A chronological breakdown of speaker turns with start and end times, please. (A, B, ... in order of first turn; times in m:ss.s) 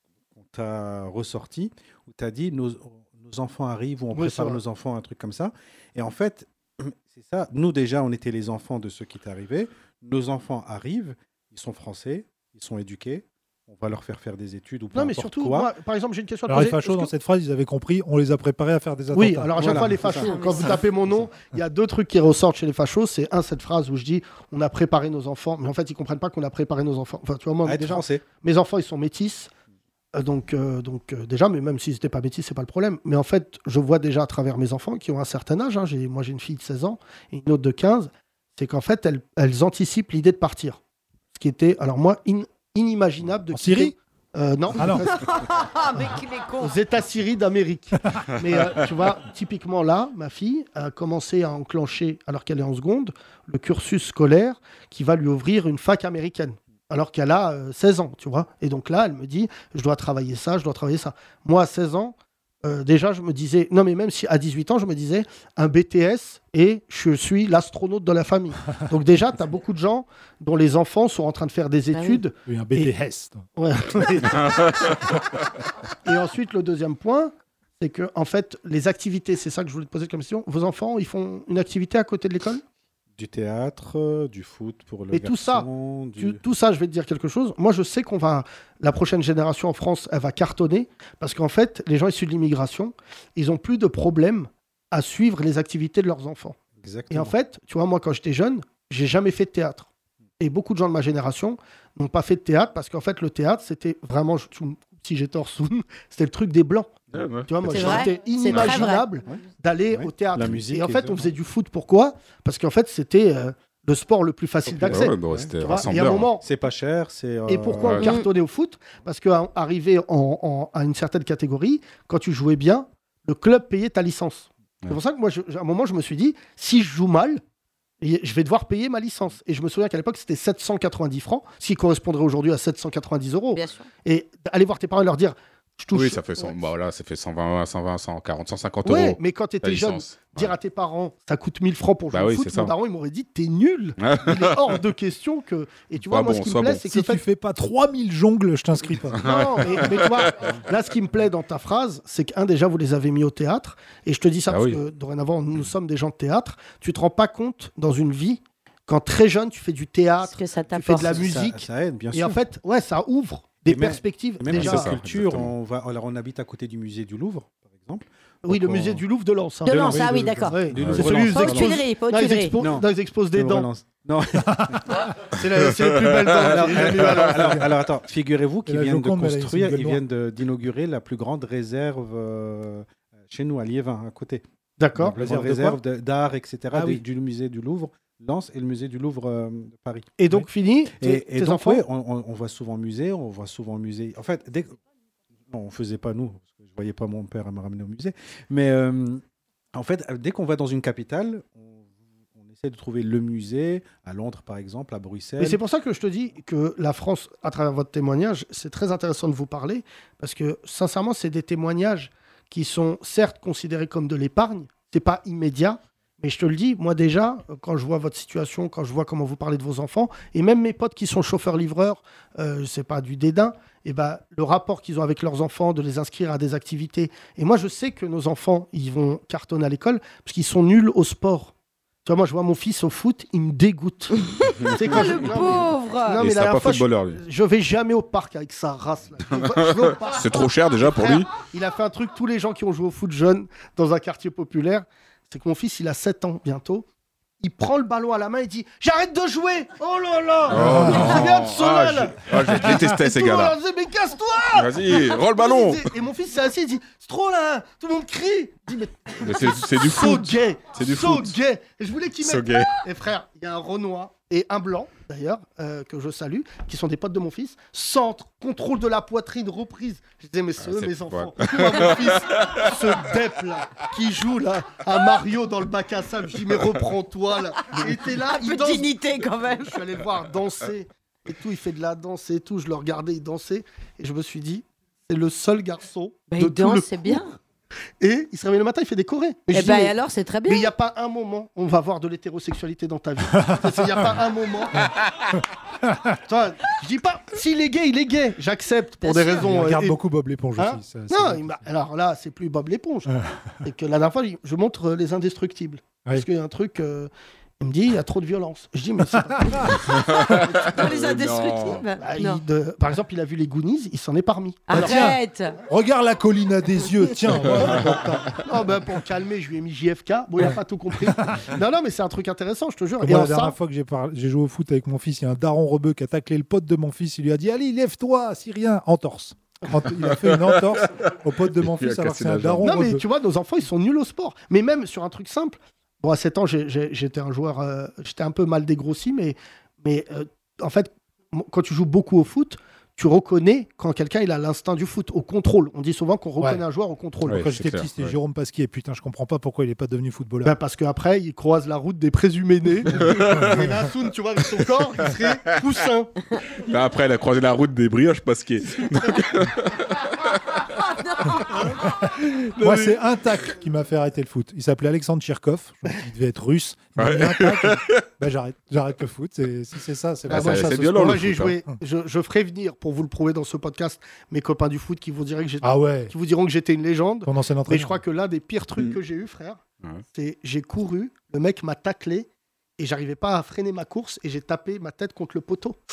0:00.4-0:15.7 A
0:04.1-0:04.6 B
0:14.9-0:17.1 B
0:16.5-0:19.9 C
0:19.1-0:29.5 B
0:19.6-0:20.4 A
0:20.1-0:20.9 D
0:27.6-0:28.2 A
0:30.2-0:40.8 B
0:41.3-0:45.3 B
0:43.5-0:44.0 C
0:44.8-0:45.0 C
0:45.2-0:46.7 D
0:46.6-1:12.9 B
1:11.9-1:12.2 D
1:12.5-1:13.5 C
1:13.6-1:15.0 B
1:16.0-1:22.6 B
1:23.2-1:26.4 A
1:25.1-1:36.6 B
1:36.8-1:37.4 A
1:37.1-1:39.9 B
1:40.4-1:46.9 B
1:47.1-1:47.5 E
1:47.1-1:48.0 A
1:47.5-1:56.4 B
1:47.7-1:49.2 D
1:49.2-1:51.3 A
1:54.7-1:55.8 A
1:54.9-1:56.3 E
1:56.4-1:58.0 A
1:57.5-2:07.4 B
1:57.8-1:58.1 E
1:58.0-1:58.3 D
2:08.0-2:16.5 B
2:13.5-2:13.9 D
2:15.9-2:20.5 E
2:18.8-2:27.2 B
2:22.1-2:22.7 E
2:24.0-2:24.8 E
2:26.1-2:26.8 E
2:26.8-2:29.3 C
2:29.2-2:30.2 E
2:29.2-2:45.0 B
2:34.5-2:34.8 E
2:40.2-2:41.3 D
2:41.0-2:42.4 A
2:43.7-2:49.0 A
2:44.5-2:45.5 E
2:48.4-2:53.7 B
2:49.6-2:52.6 D
2:49.7-2:51.8 A
2:50.8-2:51.2 E
2:52.6-2:55.0 A
2:54.5-2:54.8 C
2:55.2-2:57.7 B
2:56.4-3:04.4 A
2:58.7-3:00.0 C
3:04.8-3:05.2 B
3:05.0-3:10.1 A
3:05.2-3:05.8 C
3:06.7-3:07.0 C
3:10.2-3:11.8 B
3:11.0-3:14.8 A
3:15.5-3:19.2 A
3:19.7-3:25.6 A
3:25.4-3:51.5 B
3:52.0-4:06.9 B
3:54.6-3:55.1 E
3:54.7-3:56.2 D
3:56.2-3:57.2 E
3:59.3-4:01.3 E
4:07.4-4:39.0 B
4:10.5-4:13.6 E
4:10.5-4:11.3 C
4:14.5-4:15.9 E
4:19.2-4:21.4 E
4:22.2-4:22.8 E
4:30.6-4:33.1 E
4:37.7-4:39.8 D
4:39.5-4:47.3 B
4:46.3-4:47.3 D
4:48.0-4:54.9 B
4:49.5-4:50.7 D
4:55.8-4:56.1 C
4:56.2-5:00.0 B
4:59.0-4:59.4 D
4:59.4-5:01.6 C
5:00.6-5:11.0 B
5:09.3-5:09.7 C
5:09.9-5:11.8 E
5:10.3-5:12.4 D
5:12.0-5:15.1 B
5:14.7-5:15.6 D
5:14.7-5:18.1 C
5:17.4-5:23.6 B
5:21.1-5:21.5 C
5:23.0-5:33.0 C
5:30.0-5:31.1 E
5:31.6-5:32.6 E
5:32.6-5:47.5 B
5:47.3-5:48.2 E
5:47.3-5:50.6 C
5:50.4-5:56.1 B
5:52.9-5:53.7 C
5:52.9-5:53.6 E
5:56.5-6:00.3 E
6:00.8-6:01.6 D
6:01.5-6:01.8 B
6:02.6-6:11.2 C
6:07.0-6:08.0 E
6:10.3-6:19.6 B
6:10.3-6:11.5 E
6:15.6-6:16.1 C
6:17.2-6:18.0 C
6:20.1-6:25.8 B